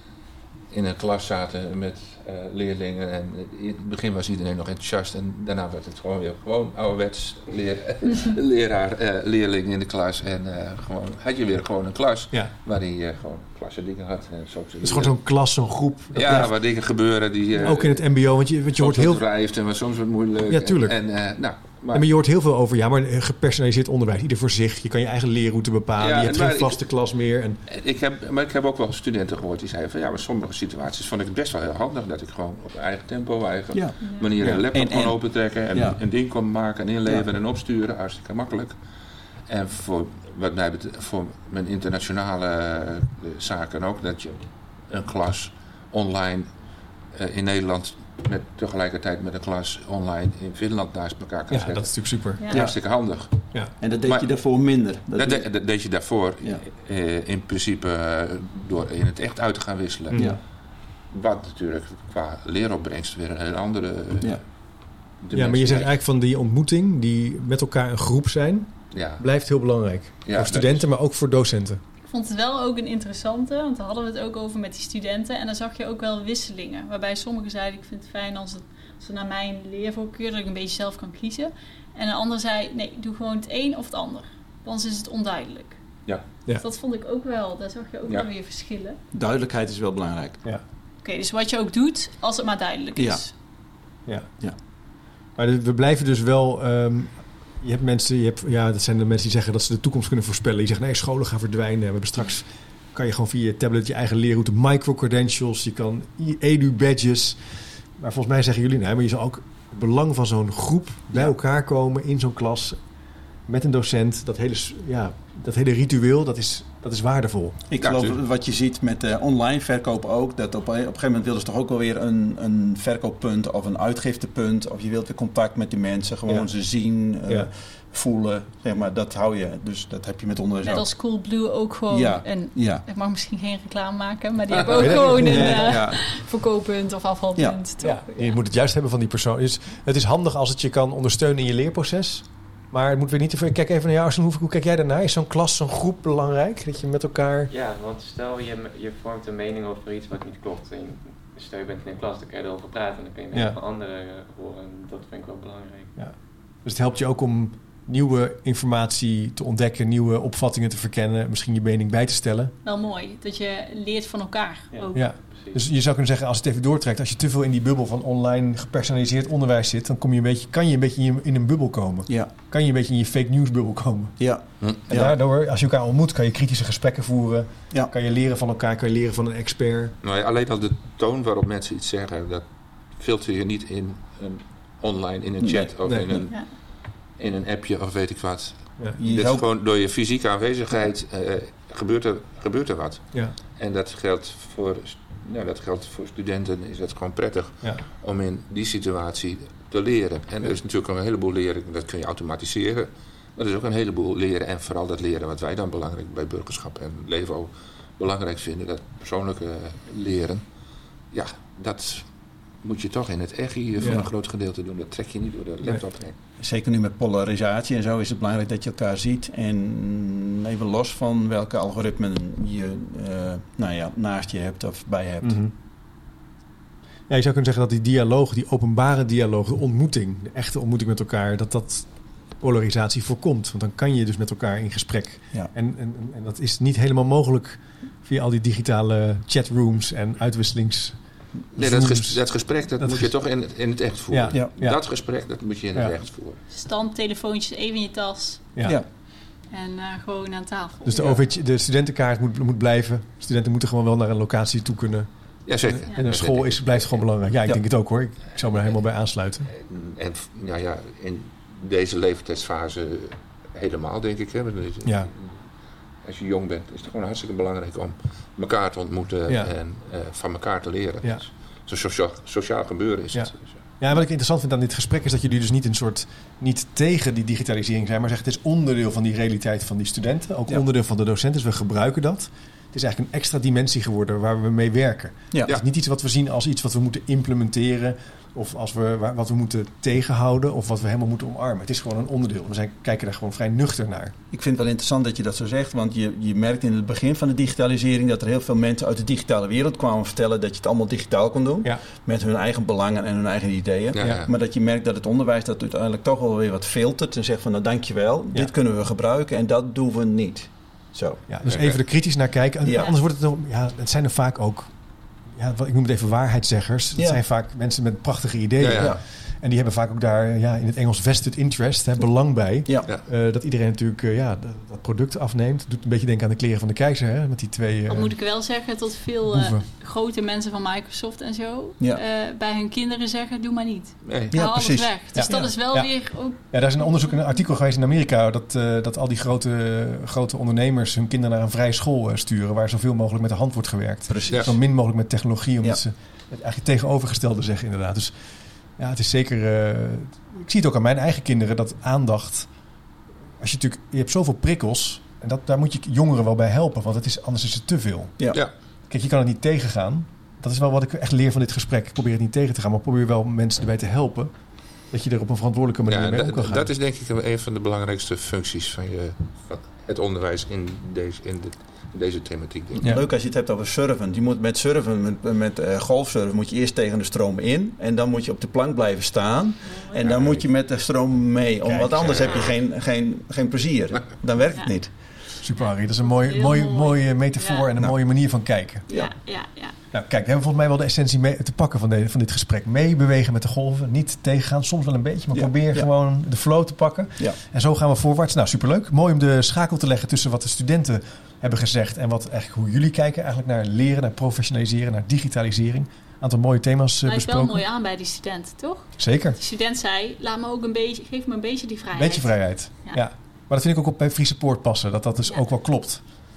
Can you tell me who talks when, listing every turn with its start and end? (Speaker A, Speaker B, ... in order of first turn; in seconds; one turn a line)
Speaker A: 0.7-15.2
Speaker B: 14.8-16.5
Speaker A: 16.1-18.1
Speaker B: 17.6-19.2
Speaker A: 18.8-22.1
Speaker B: 20.5-20.9
Speaker B: 21.9-27.6
Speaker A: 26.0-26.8
Speaker A: 27.7-38.8
Speaker C: 33.7-35.2
Speaker D: 34.0-34.3
Speaker C: 35.7-36.0
Speaker A: 39.5-46.5
Speaker A: 47.1-52.0
Speaker B: 51.5-52.4
Speaker A: 52.5-53.4
Speaker C: 53.8-55.5
Speaker A: 55.1-60.3
Speaker B: 60.1-60.4
Speaker C: 60.1-60.4
Speaker A: 61.1-64.4
Speaker A: 65.2-65.9
Speaker B: 65.3-71.8
Speaker A: 68.9-69.2
Speaker A: 70.2-70.8
Speaker D: 72.0-85.8
Speaker D: 86.5-89.0
Speaker C: 89.1-90.4
Speaker D: 91.0-93.3
Speaker C: 93.0-93.2
Speaker B: 95.3-112.8
Speaker B: 113.5-117.6
Speaker C: 117.7-130.9
Speaker A: 117.8-118.2
Speaker D: 130.6-138.3
Speaker C: 131.9-132.8
Speaker B: 134.8-135.8
Speaker C: 134.8-136.0
Speaker B: 137.8-147.5
Speaker E: 147.5-155.9
Speaker B: 153.3-153.6
Speaker B: 156.6-162.5
Speaker D: 162.6-165.1
Speaker E: 164.7-165.6
Speaker B: 164.9-174.2
Speaker C: 174.2-175.1
Speaker B: 174.9-179.9
Speaker A: 180.0-182.4
Speaker A: 182.9-186.5
Speaker C: 185.4-186.2
Speaker A: 187.2-210.4
Speaker C: 189.0-189.4
Speaker A: 211.1-212.1
Speaker A: 212.6-216.1
Speaker B: 213.8-214.0
Speaker C: 216.4-225.4
Speaker B: 225.2-225.5
Speaker B: 227.1-231.9
Speaker B: 232.4-241.0
Speaker B: 241.5-242.2
Speaker A: 241.6-246.4
Speaker B: 242.8-243.1
Speaker B: 244.1-244.8
Speaker D: 246.5-248.5
Speaker D: 249.5-251.0
Speaker B: 250.8-255.1
Speaker A: 255.4-257.1
Speaker B: 255.6-259.5
Speaker A: 259.5-265.5
Speaker B: 264.8-265.1
Speaker A: 266.0-273.6
Speaker B: 273.1-294.1
Speaker C: 294.3-311.2
Speaker A: 303.9-304.3
Speaker B: 304.0-304.3
Speaker B: 311.3-314.7
Speaker A: 311.4-311.8
Speaker C: 312.6-312.9
Speaker B: 315.3-328.1
Speaker A: 318.6-318.9
Speaker D: 327.9-337.1
Speaker B: 329.3-329.6
Speaker A: 334.0-334.3
Speaker C: 334.3-335.5
Speaker B: 335.1-335.9
Speaker B: 336.4-348.1
Speaker C: 344.1-344.5
Speaker B: 348.8-352.5
Speaker B: 353.4-358.3
Speaker B: 358.9-364.3
Speaker B: 364.9-366.6
Speaker A: 365.9-372.9
Speaker C: 372.8-384.9
Speaker D: 379.6-380.0
Speaker A: 380.0-380.4
Speaker B: 381.6-382.3
Speaker A: 382.0-382.4
Speaker B: 385.4-388.9
Speaker D: 385.6-387.7
Speaker D: 388.9-389.8
Speaker B: 389.9-407.6
Speaker C: 395.3-395.9
Speaker D: 407.0-413.0
Speaker B: 409.0-409.4
Speaker B: 411.9-416.0